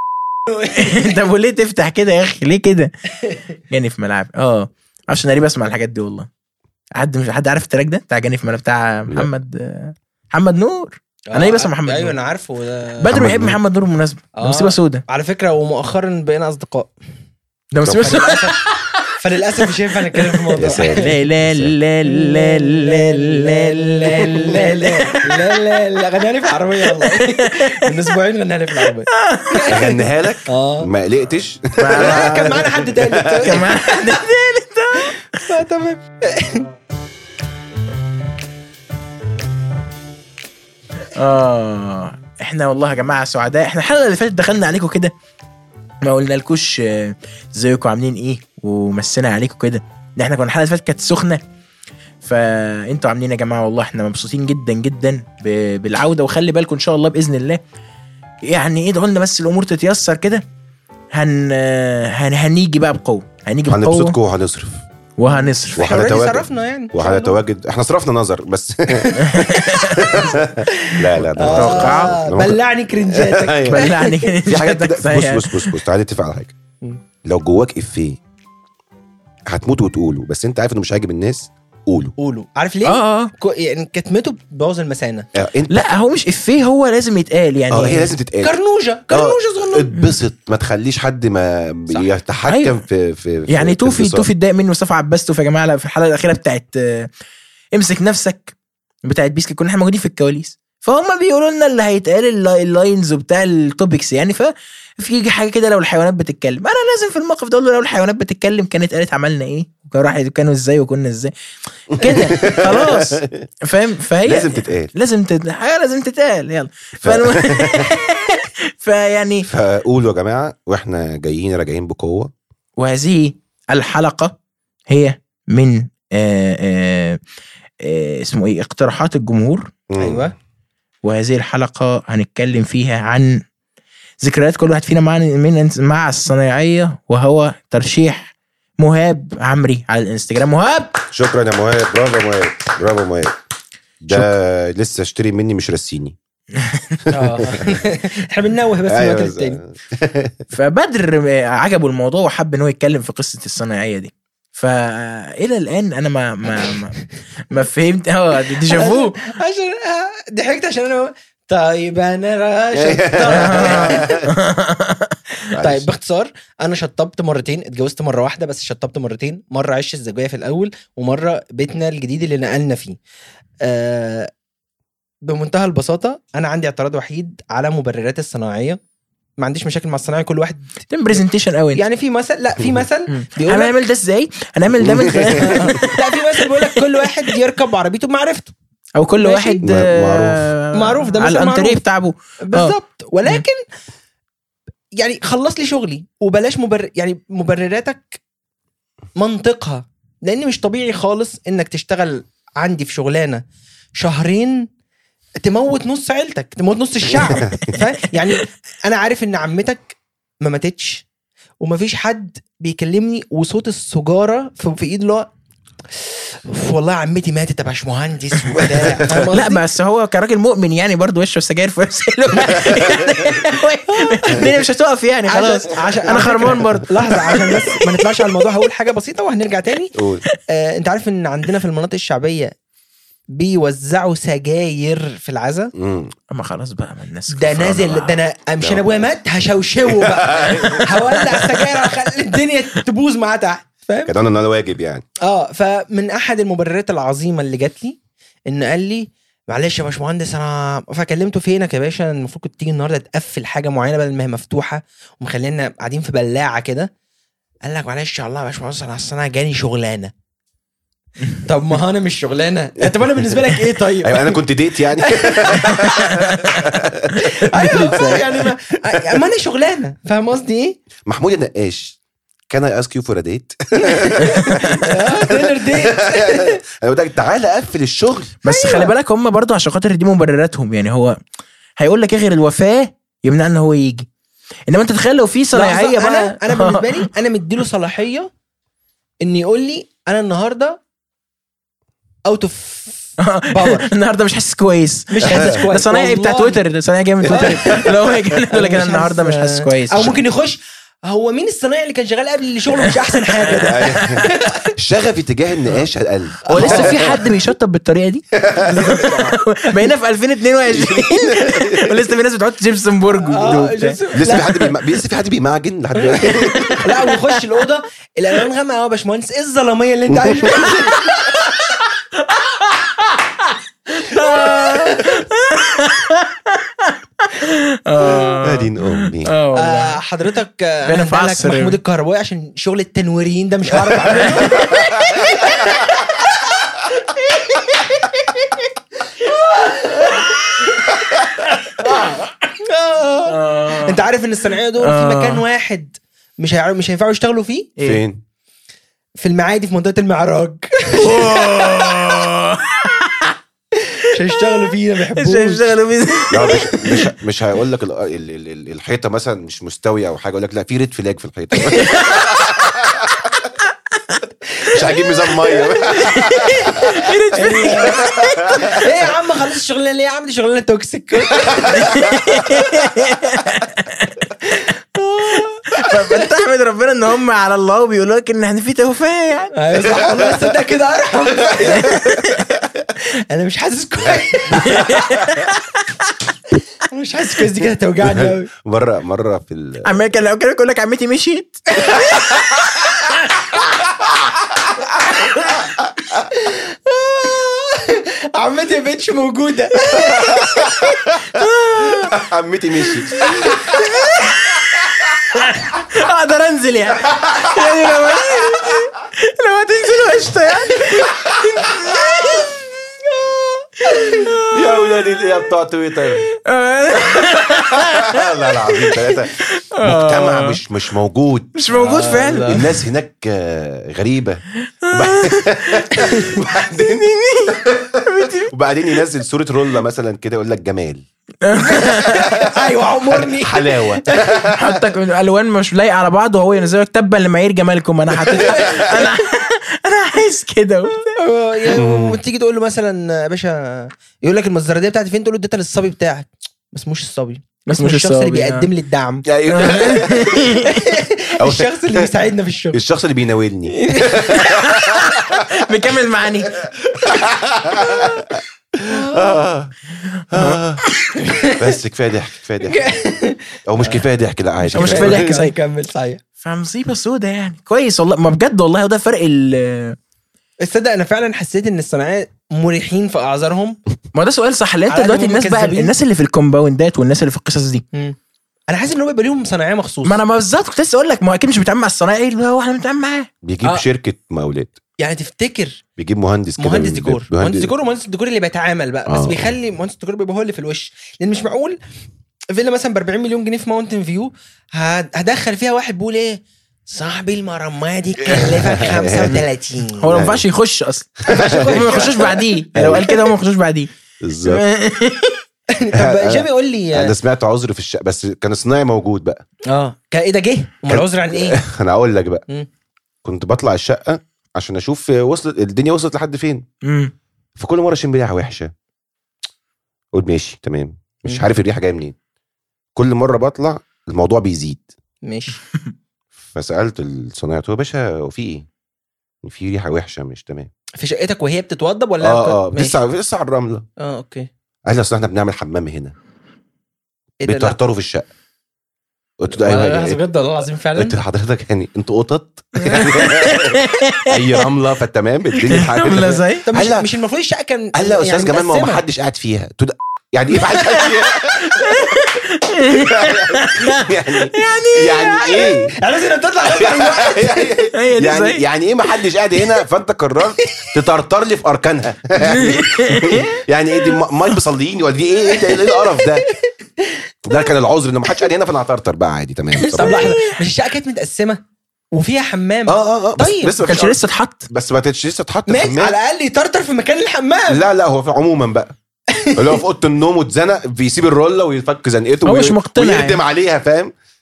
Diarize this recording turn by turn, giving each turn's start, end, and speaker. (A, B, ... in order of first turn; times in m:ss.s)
0:00.5-0:02.9 A
0:03.7-0:06.3 A
0:07.0-0:12.2 A
0:11.3-0:13.1 B
0:13.0-0:15.0 A
0:13.1-0:13.6 C
0:14.4-0:16.9 B
0:17.7-0:19.1 A
0:17.8-0:18.2 C
0:17.9-0:21.1 B
0:20.1-0:25.8 A
0:20.6-0:21.7 C
0:22.1-0:30.9 B
0:26.8-0:28.1 A
0:29.1-0:29.8 A
0:29.7-0:33.5 C
0:31.8-0:32.7 A
0:31.9-0:34.2 B
0:33.3-0:35.5 A
0:35.0-0:36.7 B
0:41.1-0:45.1 A
0:46.0-0:51.4 A
0:52.2-0:57.6 A
0:58.4-1:00.4 A
1:01.1-1:04.2 A
1:03.7-1:04.8 C
1:05.2-1:05.8 A
1:05.3-1:07.4 B
1:05.8-1:13.9 C
1:09.1-1:10.4 A
1:10.7-1:14.3 B
1:11.4-1:12.2 A
1:13.7-1:15.8 A
1:14.4-1:16.5 C
1:17.2-1:18.2 C
1:19.5-1:22.1 C
1:22.2-1:25.3 B
1:22.8-1:23.3 A
1:25.3-1:25.9 C
1:25.7-1:28.1 A
1:27.7-1:28.5 C
1:28.4-1:29.9 B
1:29.1-1:34.3 C
1:32.5-1:32.8 A
1:33.5-1:37.1 A
1:37.7-1:51.3 A
1:51.9-1:59.5 A
1:51.9-1:53.4 C
1:54.2-1:54.9 C
1:57.0-1:58.0 C
1:59.4-2:02.3 C
2:02.8-2:04.4 A
2:04.9-2:07.2 A
2:07.8-2:09.7 A
2:09.9-2:10.3 C
2:10.0-2:10.3 B
2:11.0-2:13.4 A
2:14.2-2:21.0 A
2:21.1-2:23.4 C
2:24.0-2:26.2 C
2:26.5-2:27.1 A
2:27.1-2:29.6 B
2:27.1-2:27.8 C
2:28.9-2:30.4 C
2:30.5-2:39.2 A
2:38.5-2:44.2 B
2:42.7-2:44.3 C
2:43.3-2:45.2 A
2:45.5-2:53.0 B
2:45.5-2:45.9 C
2:53.6-2:54.3 B
2:55.2-2:58.8 B
2:59.4-3:00.9 B
3:00.9-3:01.8 A
3:01.7-3:03.8 B
3:03.1-3:07.3 A
3:04.8-3:05.7 C
3:05.4-3:08.5 B
3:09.0-3:12.7 A
3:09.2-3:09.6 B
3:09.6-3:10.5 C
3:10.7-3:11.8 B
3:12.4-3:13.6 B
3:15.0-3:18.2 B
3:19.2-3:23.4 B
3:24.0-3:24.7 B
3:25.4-3:31.0 B
3:27.3-3:27.7 C
3:31.6-3:35.3 B
3:35.9-3:39.6 B
3:38.5-3:39.3 C
3:39.1-3:48.5 A
3:42.6-3:43.0 C
3:43.9-3:44.5 B
3:45.3-3:49.9 B
3:49.9-3:50.2 C
3:50.4-3:52.5 B
3:53.3-3:55.7 B
3:55.7-3:56.1 C
3:56.3-3:58.2 A
3:57.3-4:04.1 B
3:58.6-3:59.0 C
3:59.8-4:01.7 C
4:04.0-4:05.0 C
4:05.2-4:16.9 B
4:17.6-4:20.1 B
4:21.4-4:24.4 B
4:22.8-4:23.4 C
4:24.0-4:28.2 C
4:25.0-4:30.8 B
4:25.7-4:26.1 A
4:27.2-4:28.2 A
4:31.0-4:32.0 C
4:32.5-4:38.4 C
4:33.8-4:36.6 B
4:34.2-4:34.9 A
4:38.4-4:41.2 A
4:38.4-4:38.9 B
4:41.8-4:44.1 A
4:44.7-4:47.1 A
4:45.5-4:48.3 B
4:49.2-4:50.8 B
4:52.2-4:53.9 B
4:53.2-5:00.2 A
4:55.1-4:56.6 B
4:55.2-4:55.6 C
4:57.3-4:58.0 B
4:57.3-4:57.8 C
4:58.5-5:04.7 B
5:02.8-5:04.3 A
5:03.5-5:07.2 C
5:06.5-5:14.0 A
5:06.5-5:07.2 B
5:08.3-5:09.1 C
5:08.7-5:09.4 B
5:10.7-5:12.0 C
5:13.2-5:14.7 B
5:14.1-5:16.9 C
5:16.0-5:21.6 B
5:16.2-5:17.4 A
5:20.1-5:20.5 C
5:20.6-5:21.6 A
5:22.1-5:30.0 A
5:24.0-5:25.2 B
5:28.4-5:29.3 C
5:29.5-5:37.8 B
5:30.8-5:31.8 A
5:34.2-5:35.8 A
5:34.5-5:35.2 C
5:38.0-5:38.3 A
5:39.2-5:41.0 B
5:39.9-5:40.6 A
5:41.8-5:42.2 A
5:41.8-5:47.7 B
5:43.3-5:44.0 A
5:44.8-5:45.4 A
5:47.8-5:48.0 A
5:47.8-5:48.2 C
5:49.2-5:52.1 B
5:50.9-5:53.4 A
5:54.0-5:55.8 B
5:54.0-5:57.1 A
5:56.3-6:03.3 C
6:01.7-6:02.6 A
6:04.0-6:04.2 A
6:04.6-6:05.7 B
6:04.7-6:07.1 C
6:05.8-6:08.8 A
6:06.7-6:12.6 B
6:07.9-6:08.7 C
6:11.6-6:19.6 A
6:14.5-6:16.3 B
6:19.5-6:22.2 B
6:19.8-6:20.5 C
6:21.4-6:22.2 C
6:21.7-6:22.5 A
6:23.0-6:25.2 B
6:24.5-6:26.1 A
6:26.9-6:28.5 B
6:28.0-6:29.9 C
6:29.8-6:32.4 A
6:31.8-6:32.3 B
6:32.1-6:32.6 C
6:35.6-6:36.2 C
6:36.3-6:41.1 B
6:39.9-6:41.1 C
6:41.4-6:42.1 A
6:41.9-6:43.8 C
6:43.0-6:52.5 A
6:43.3-6:43.6 B
6:47.1-6:47.7 C
6:53.8-6:54.8 A
6:53.8-6:54.3 B
6:54.5-6:56.2 C
6:56.4-7:00.6 A
6:57.7-7:01.6 C
7:01.5-7:02.6 A
7:01.7-7:02.7 B
7:02.4-7:11.0 C
7:04.8-7:08.5 A
7:11.4-7:12.3 A
7:11.6-7:14.8 C
7:11.7-7:14.3 B
7:14.4-7:21.1 A
7:18.4-7:19.0 C
7:18.5-7:18.8 B
7:21.0-7:29.3 B
7:21.7-7:22.2 C
7:27.7-7:28.7 A
7:29.2-7:30.5 C
7:29.5-7:30.9 A
7:30.6-7:32.8 B
7:31.4-7:32.1 C
7:32.7-7:35.4 C
7:33.7-7:34.6 B
7:34.2-7:36.7 A
7:36.9-7:39.7 C
7:37.9-7:38.2 B
7:38.9-7:39.4 B
7:40.2-7:40.6 A
7:40.3-7:40.8 C
7:41.2-7:41.7 B
7:41.4-7:42.9 C
7:42.6-7:44.0 B
7:43.6-7:45.3 C
7:44.7-7:45.5 A
7:44.7-7:46.2 B
7:46.4-7:50.0 A
7:50.6-7:53.8 B
7:54.1-7:57.8 A
7:54.9-7:55.9 B
7:58.7-8:00.2 B
8:00.0-8:03.3 A
8:03.4-8:04.7 C
8:05.0-8:05.8 B
8:06.0-8:07.7 C
8:06.6-8:11.8 B
8:09.1-8:09.5 C
8:12.5-8:20.1 B
8:18.2-8:19.4 C
8:20.0-8:23.9 A
8:20.1-8:20.4 C
8:21.3-8:22.6 B
8:21.3-8:23.1 C
8:24.2-8:24.6 C
8:24.4-8:25.4 A
8:25.7-8:27.1 B
8:25.9-8:29.4 C
8:29.7-8:31.6 B
8:30.9-8:32.4 C
8:33.2-8:36.6 C
8:36.8-8:37.1 A
8:37.6-8:38.7 C
8:40.1-8:42.2 C
8:42.9-8:44.9 C
8:45.2-8:45.6 B
8:46.5-8:48.7 C
8:49.4-8:50.7 C
8:51.0-8:53.0 B
8:52.2-8:53.8 C
8:54.0-8:54.5 B
8:54.8-8:56.1 C
8:57.4-8:57.8 B
8:57.4-8:58.2 C
8:59.4-9:00.2 C
8:59.5-9:01.2 B
9:01.0-9:07.1 C
9:02.8-9:04.6 A
9:05.6-9:06.7 A
9:06.6-9:09.0 B
9:07.9-9:11.9 C
9:11.6-9:15.8 A
9:13.0-9:16.0 C
9:16.0-9:17.9 B
9:16.6-9:26.5 C
9:17.9-9:18.6 A
9:22.4-9:23.5 A
9:25.4-9:27.5 B
9:27.4-9:30.4 C
9:29.9-9:31.6 B
9:29.9-9:30.6 A
9:32.1-9:33.8 B
9:32.9-9:36.2 C
9:33.8-9:34.7 A
9:35.7-9:37.8 B
9:37.7-9:38.9 C
9:39.3-9:39.8 B
9:39.5-9:44.1 C
9:42.4-9:43.4 A